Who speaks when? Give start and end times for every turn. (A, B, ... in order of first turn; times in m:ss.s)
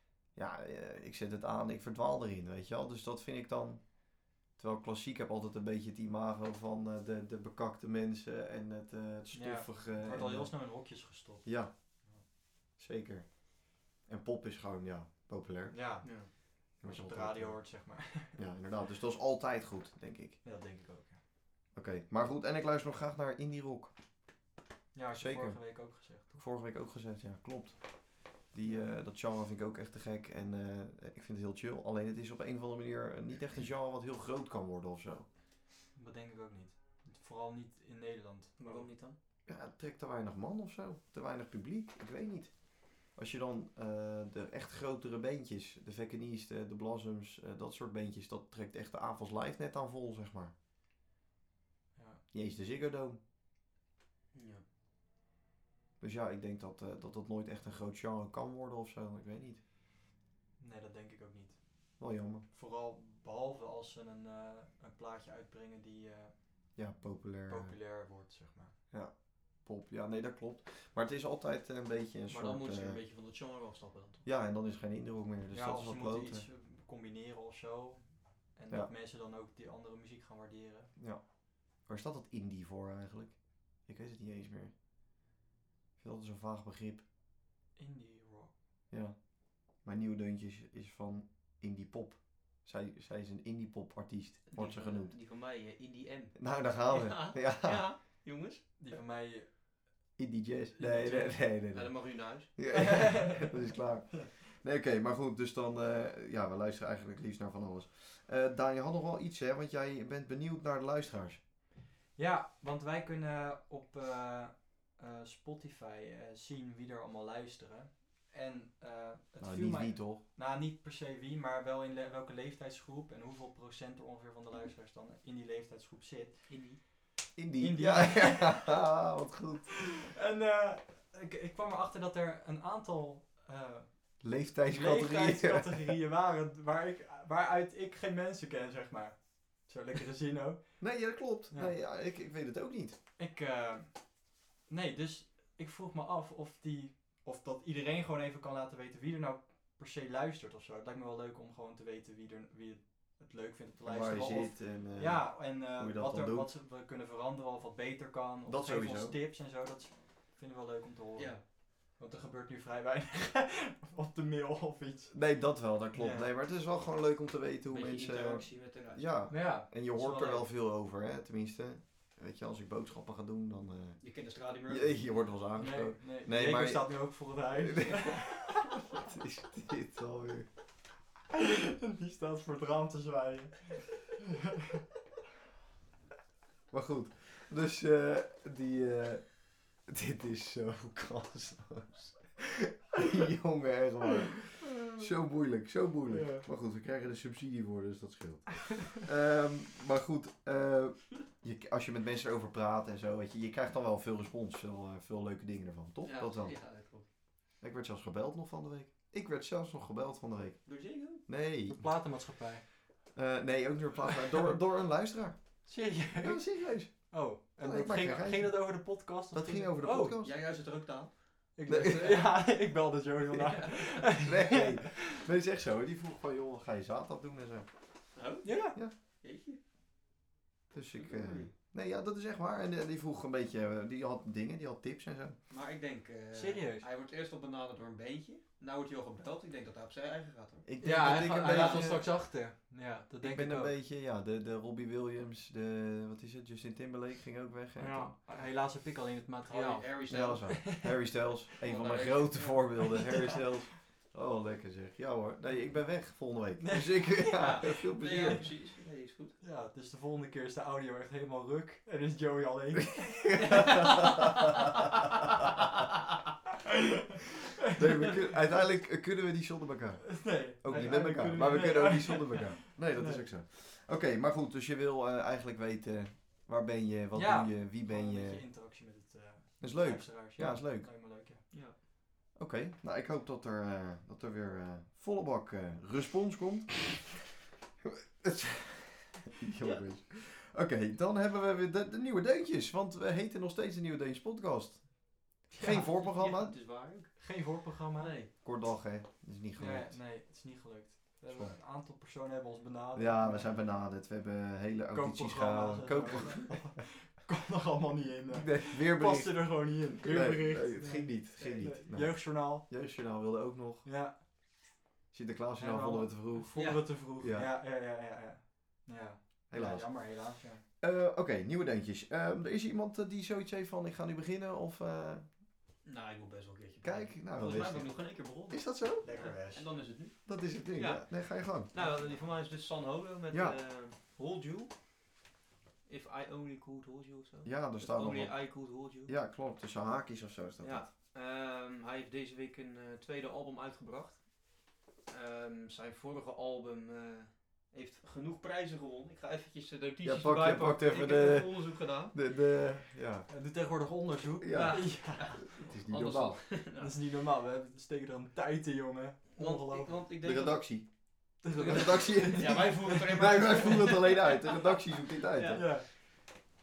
0:00.3-0:10.7 A
0:09.3-0:12.2 B
0:11.4-0:11.7 A
0:12.8-0:16.2 A
0:15.7-0:18.4 B
0:16.0-0:16.3 C
0:16.8-0:20.4 A
0:20.4-0:21.2 B
0:21.7-0:23.9 A
0:24.9-0:26.4 B
0:25.1-0:35.2 A
0:28.6-0:28.9 B
0:35.9-0:38.9 B
0:38.6-0:39.2 C
0:39.4-0:50.5 A
0:51.9-0:52.2 B
0:52.3-0:53.2 A
0:54.3-0:54.6 C
0:56.0-0:59.6 A
1:00.6-1:01.6 B
1:02.0-1:02.4 A
1:02.5-1:06.4 B
1:06.8-1:07.8 A
1:07.5-1:08.7 B
1:08.9-1:13.0 A
1:12.3-1:14.2 C
1:14.2-1:16.4 A
1:15.5-1:20.9 B
1:21.0-1:24.7 A
1:26.0-1:27.0 A
1:27.8-1:28.5 B
1:28.9-1:35.2 A
1:34.5-1:38.9 C
1:36.4-1:37.9 A
1:38.8-1:39.5 B
1:40.2-1:51.4 A
1:40.8-1:41.4 B
1:41.4-1:42.6 C
1:42.7-1:43.5 B
1:52.2-2:06.9 B
1:59.4-2:00.2 A
2:06.5-2:06.8 C
2:07.4-2:09.7 A
2:07.6-2:08.7 B
2:10.1-2:21.0 B
2:14.2-2:15.9 A
2:20.8-2:23.0 A
2:21.5-2:21.7 B
2:23.2-2:45.2 B
2:33.8-2:36.5 A
2:38.4-2:39.2 A
2:41.2-2:41.4 C
2:45.1-2:54.0 A
2:45.9-2:46.3 B
2:47.7-2:49.2 C
2:49.3-2:50.4 B
2:54.0-2:55.2 C
2:54.7-3:00.5 A
2:55.6-2:58.7 B
3:01.3-3:04.8 B
3:06.7-3:26.6 A
3:14.8-3:15.0 B
3:16.1-3:16.4 B
3:26.0-3:27.0 C
3:27.6-3:30.7 A
3:30.6-3:31.2 C
3:31.2-3:31.9 A
3:31.7-3:32.6 B
3:33.1-3:40.4 A
3:35.6-3:40.2 B
3:40.2-3:42.3 C
3:41.6-3:45.0 B
3:41.7-3:42.1 A
3:43.3-3:44.1 C
3:44.2-3:47.7 A
3:48.1-3:49.6 C
3:48.4-3:48.8 B
3:50.7-3:55.4 A
3:50.9-3:51.5 C
3:55.5-4:01.9 C
3:56.3-3:56.8 B
4:00.6-4:02.1 A
4:00.8-4:03.7 B
4:03.2-4:08.1 A
4:07.8-4:10.9 B
4:09.5-4:10.6 C
4:10.1-4:18.5 A
4:11.6-4:13.4 C
4:16.6-4:18.4 B
4:17.3-4:19.3 C
4:19.4-4:24.3 B
4:23.4-4:24.3 C
4:27.8-4:38.4 A
4:30.0-4:33.3 B
4:30.7-4:31.0 C
4:37.1-4:41.4 B
4:39.6-4:40.9 A
4:41.5-4:41.8 C
4:42.3-4:47.2 A
4:47.8-4:56.5 A
4:55.5-4:55.8 B
4:55.6-4:57.4 C
4:57.2-4:58.1 B
4:58.0-4:58.3 C
4:58.4-5:00.0 A
4:59.6-5:03.6 B
5:01.3-5:01.6 A
5:02.9-5:06.8 A
5:04.9-5:12.6 B
5:08.3-5:13.8 A
5:13.8-5:14.2 B
5:15.1-5:17.5 A
5:15.6-5:20.6 B
5:16.5-5:16.9 C
5:19.5-5:20.2 A
5:20.8-5:25.2 A
5:25.8-5:34.7 C
5:26.8-5:29.0 A
5:29.0-5:29.6 B
5:30.2-5:31.7 A
5:33.3-5:33.6 A
5:35.8-5:39.1 C
5:37.4-5:40.9 A
5:40.6-5:44.3 C
5:45.1-5:52.1 C
5:50.0-5:53.3 A
5:53.3-5:55.4 B
5:54.4-5:56.4 A
5:54.5-5:57.0 C
5:56.8-6:00.0 B
5:59.4-6:00.7 C
6:00.2-6:05.7 A
6:01.4-6:03.0 B
6:01.5-6:05.8 C
6:05.5-6:05.8 B